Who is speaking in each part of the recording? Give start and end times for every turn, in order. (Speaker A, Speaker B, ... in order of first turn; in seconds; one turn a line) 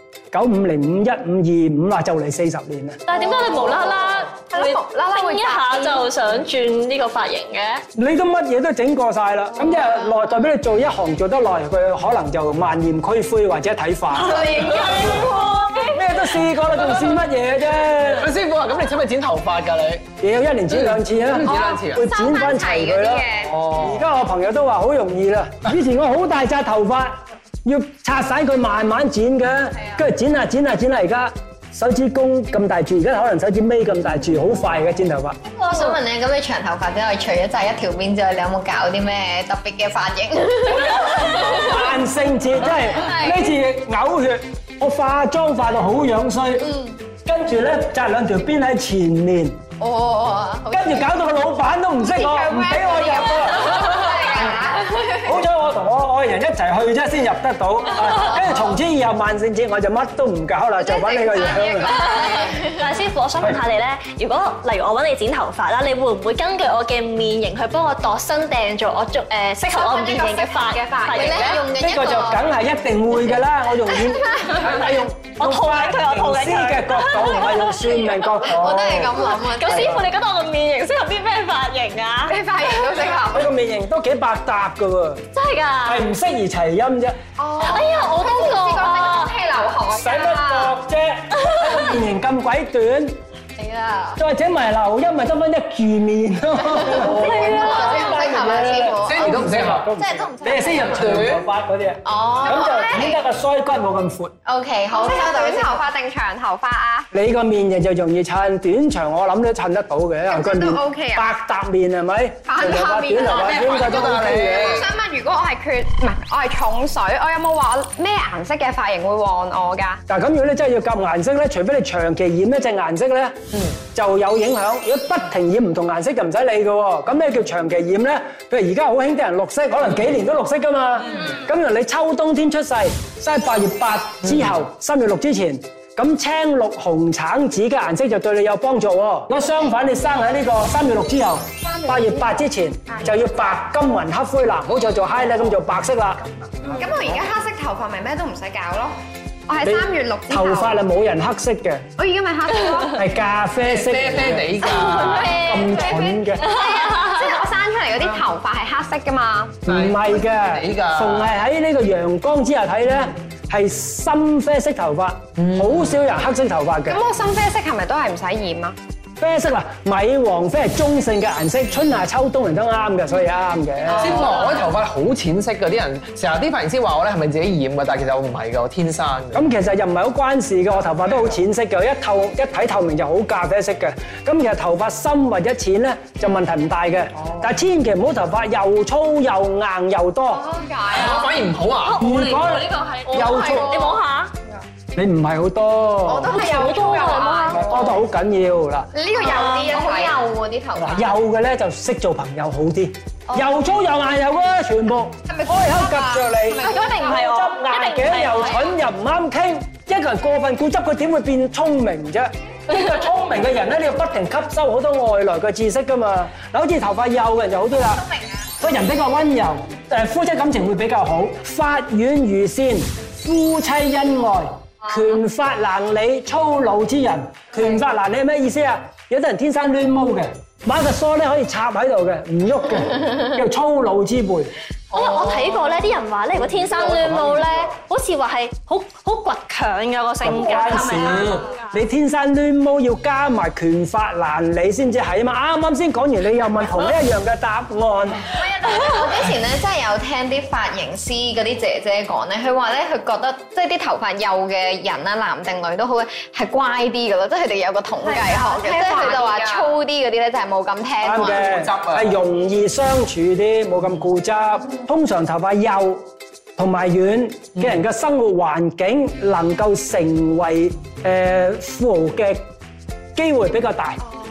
Speaker A: 0.3-3.0
Speaker B: 3.1-7.8
Speaker C: 3.1-6.0
Speaker A: 7.9-15.1
Speaker B: 14.2-16.3
Speaker A: 15.9-18.3
Speaker D: 18.0-20.1
Speaker A: 20.2-35.4
Speaker D: 20.7-22.1
Speaker C: 21.4-23.6
Speaker D: 23.5-24.0
Speaker E: 35.5-41.3
Speaker A: 41.1-49.6
Speaker C: 43.1-43.4
Speaker E: 49.8-50.8
Speaker A: 50.7-54.0
Speaker C: 52.0-55.3
Speaker A: 55.2-62.1
Speaker C: 60.8-62.8
Speaker B: 62.0-71.8
Speaker C: 69.6-71.7
Speaker E: 71.1-72.5
Speaker A: 71.7-80.0
Speaker B: 75.3-78.3
Speaker E: 78.4-80.0
Speaker B: 79.1-82.4
Speaker C: 82.3-83.5
Speaker A: 83.3-85.3
Speaker B: 85.3-86.0
Speaker A: 85.8-87.2
Speaker C: 87.4-90.7
Speaker B: 87.6-89.3
Speaker A: 89.9-93.2
Speaker B: 91.5-91.8
Speaker E: 93.6-94.2
Speaker A: 94.2-104.3
Speaker E: 96.9-101.2
Speaker C: 96.9-98.4
Speaker B: 97.0-98.1
Speaker D: 99.0-99.9
Speaker D: 100.8-101.4
Speaker E: 102.0-103.1
Speaker C: 102.2-103.2
Speaker E: 104.5-105.8
Speaker C: 104.9-107.1
Speaker A: 107.1-114.9
Speaker C: 110.3-111.3
Speaker C: 112.5-113.8
Speaker D: 113.2-114.9
Speaker C: 114.3-120.0
Speaker A: 120.1-146.3
Speaker C: 141.6-142.3
Speaker C: 146.6-150.8
Speaker A: 149.6-151.9
Speaker C: 152.0-153.0
Speaker A: 152.9-156.6
Speaker D: 153.6-155.6
Speaker C: 154.6-159.6
Speaker B: 156.5-157.2
Speaker D: 159.7-161.3
Speaker A: 159.7-167.0
Speaker D: 165.4-165.9
Speaker C: 166.9-168.8
Speaker A: 169.2-174.3
Speaker C: 173.9-174.6
Speaker D: 173.9-179.4
Speaker A: 179.3-190.5
Speaker C: 190.3-191.4
Speaker D: 190.9-192.4
Speaker B: 191.8-194.3
Speaker A: 192.0-193.8
Speaker C: 193.1-194.0
Speaker A: 194.9-196.4
Speaker C: 196.1-197.9
Speaker B: 196.3-197.8
Speaker A: 197.5-198.9
Speaker C: 198.9-200.3
Speaker B: 199.2-199.8
Speaker E: 199.2-201.1
Speaker A: 200.7-218.1
Speaker C: 205.3-207.0
Speaker B: 206.6-208.7
Speaker A: 218.6-234.5
Speaker B: 234.9-241.7
Speaker E: 234.9-235.5
Speaker D: 236.6-237.6
Speaker A: 240.2-248.3
Speaker E: 248.3-261.5
Speaker C: 258.0-259.8
Speaker A: 261.0-272.5
Speaker D: 261.4-262.1
Speaker A: 273.1-274.0